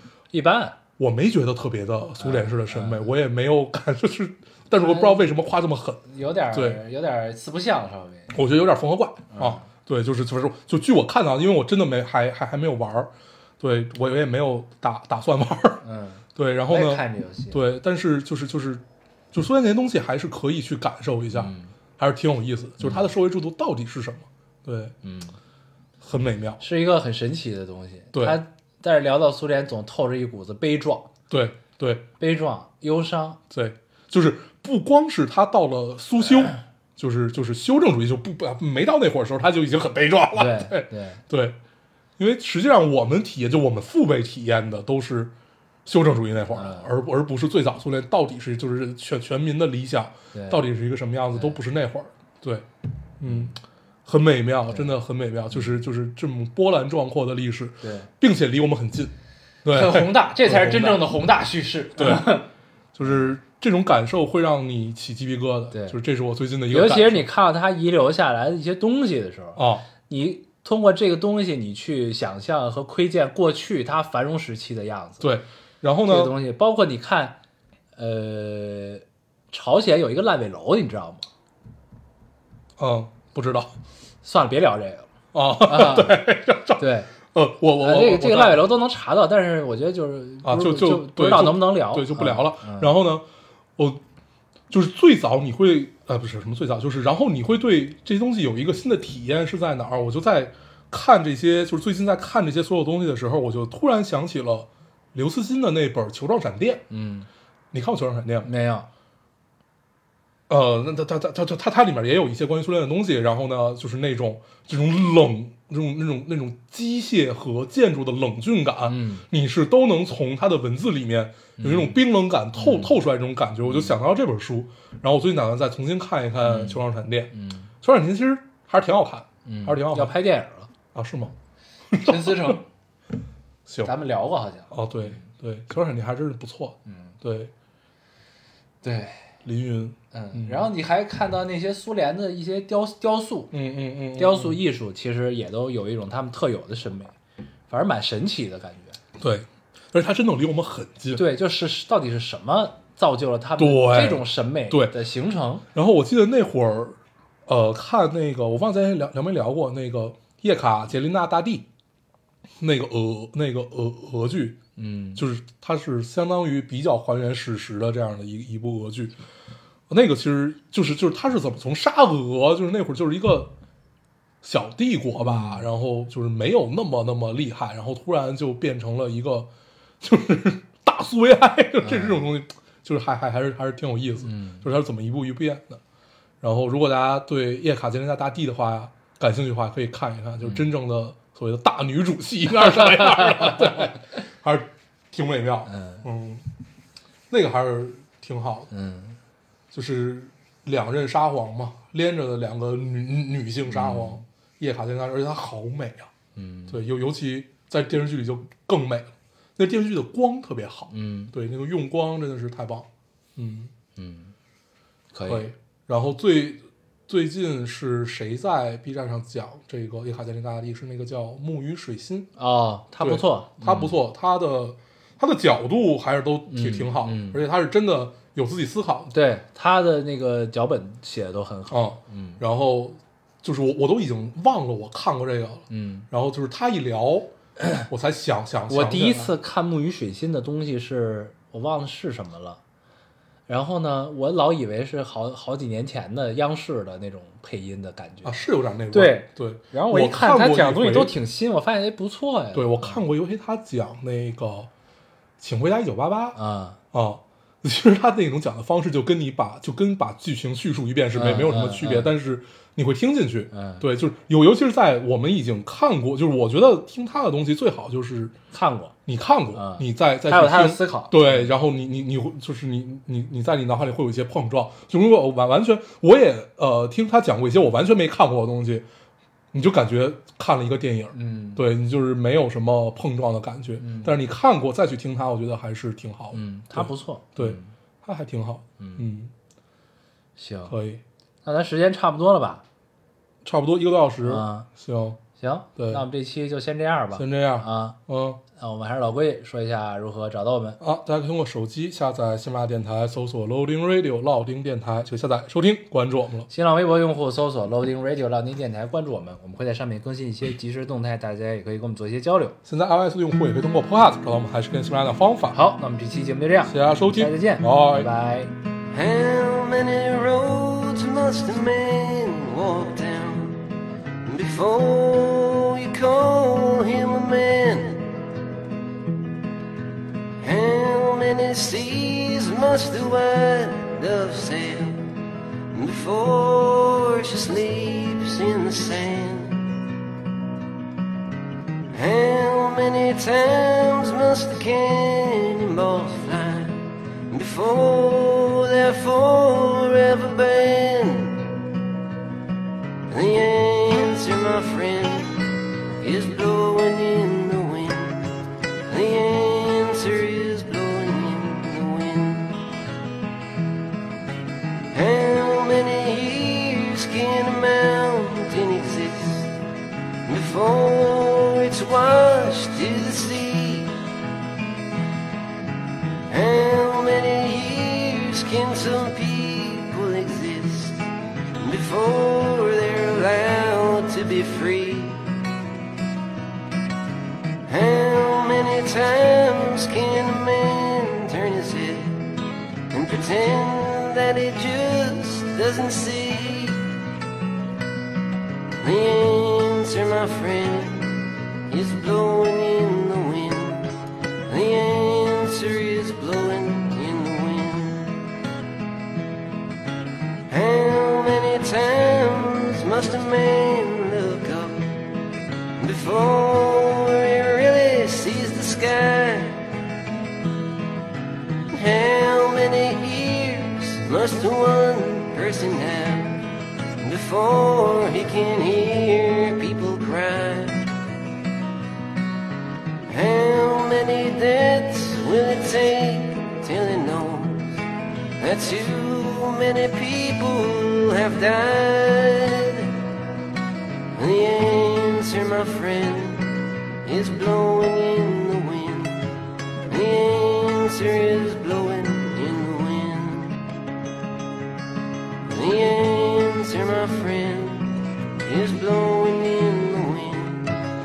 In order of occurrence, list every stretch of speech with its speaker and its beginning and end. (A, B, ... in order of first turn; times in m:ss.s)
0:00.3-0:00.8 A
0:01.0-0:06.8 B
0:02.2-0:03.0 A
0:04.8-0:05.3 A
0:06.1-0:08.3 A
0:08.3-0:15.8 B
0:09.3-0:09.7 A
0:15.8-0:17.6 A
0:16.4-0:24.9 B
0:21.3-0:21.7 A
0:25.0-0:25.4 A
0:26.0-0:26.6 B
0:26.6-0:31.1 A
0:28.1-0:28.4 B
0:31.3-0:32.0 B
0:32.2-0:33.4 A
0:33.5-0:41.6 B
0:40.3-0:41.2 A
0:42.2-0:45.3 B
0:45.9-0:52.7 B
0:46.5-0:46.9 A
0:50.3-0:50.6 A
0:53.2-0:59.1 B
0:53.3-0:53.6 A
0:57.8-0:58.1 A
0:59.6-1:01.1 B
0:59.7-1:02.5 A
1:02.0-1:02.3 B
1:03.0-1:07.3 B
1:05.7-1:06.0 A
1:06.7-1:15.3 A
1:09.6-1:09.9 B
1:15.2-1:16.3 B
1:16.1-1:17.4 A
1:18.0-1:21.3 A
1:22.8-1:23.7 B
1:24.2-1:25.1 A
1:25.3-1:28.7 B
1:25.6-1:26.2 A
1:26.8-1:27.1 A
1:27.8-1:32.9 A
1:30.4-1:33.2 B
1:34.7-1:46.8 B
1:46.9-1:47.3 A
1:47.7-1:48.5 B
1:48.4-1:48.9 A
1:50.5-2:10.2 B
1:58.8-1:59.3 A
2:01.6-2:02.0 A
2:02.6-2:03.0 A
2:03.6-2:04.0 A
2:06.4-2:07.7 A
2:09.4-2:10.7 A
2:10.9-2:11.4 B
2:11.9-2:12.6 B
2:12.0-2:12.6 A
2:13.7-2:13.9 B
2:13.8-2:14.7 A
2:14.7-2:17.5 B
2:16.9-2:17.1 A
2:18.8-2:19.3 A
2:19.4-2:20.7 B
2:20.1-2:23.5 A
2:23.5-2:24.6 B
2:24.2-2:27.2 A
2:27.7-2:29.0 A
2:29.2-2:31.2 B
2:31.2-2:35.6 A
2:33.6-2:35.0 B
2:35.7-2:41.7 B
2:42.6-2:44.6 B
2:44.8-2:45.2 A
2:45.2-2:49.2 B
2:49.9-2:53.5 B
2:54.4-2:59.5 B
2:55.2-2:55.7 A
3:00.0-3:05.8 B
3:01.8-3:02.2 A
3:04.2-3:04.6 A
3:06.4-3:16.4 B
3:15.7-3:16.0 A
3:17.3-3:18.7 B
3:18.7-3:19.2 A
3:19.7-3:26.1 B
3:23.7-3:24.2 A
3:26.4-3:26.8 A
3:26.7-3:33.7 B
3:30.9-3:31.3 A
3:34.0-3:34.3 A
3:35.1-3:35.5 A
3:35.3-3:42.3 B
3:42.4-3:44.0 A
3:43.0-3:49.1 B
3:46.5-3:47.4 A
3:49.1-3:52.4 A
3:51.7-3:57.3 B
3:55.7-3:56.1 A
3:57.9-3:59.3 B
3:58.7-4:02.6 A
4:03.5-4:13.0 A
4:08.2-4:11.2 B
4:12.5-4:14.7 B
4:15.4-4:16.4 B
4:16.4-4:16.8 A
4:16.9-4:28.3 B
4:21.1-4:22.1 A
4:23.5-4:23.8 A
4:28.5-4:29.0 A
4:29.1-4:38.9 B
4:29.5-4:31.5 A
4:39.5-4:49.3 B
4:41.1-4:41.6 A
4:43.8-4:44.2 A
4:46.3-4:47.7 A
4:48.8-4:49.0 A
4:50.4-4:50.8 A
4:50.7-4:51.0 B
4:51.4-4:52.6 A
4:53.4-4:55.2 B
4:54.2-4:54.7 A
4:55.4-4:58.0 A
4:55.8-4:56.0 B
4:57.2-4:58.4 B
4:58.6-5:00.8 A
5:00.8-5:06.5 B
5:06.5-5:12.6 A
5:12.6-5:15.6 B
5:15.5-5:18.5 A
5:16.7-5:18.1 B
5:18.9-5:23.7 C
5:24.2-5:28.1 C
5:30.4-5:35.1 C
5:35.7-5:39.7 C
5:41.9-5:51.5 C
5:53.1-5:55.5 C
5:56.0-5:58.3 C
5:58.9-6:02.6 C
6:04.9-6:09.5 C
6:10.3-6:14.0 C
6:16.3-6:21.1 C
6:21.6-6:25.3 C
6:27.7-6:32.2 C
6:32.9-6:36.9 C
6:38.8-6:44.0 C
6:44.5-6:48.2 C
6:50.5-6:54.9 C
6:55.8-6:59.7 C
7:01.7-7:10.9 C
7:13.1-7:17.8 C
7:18.4-7:23.0 C
7:24.2-7:29.3 C
7:29.9-7:33.6 C
7:35.5-7:40.8 C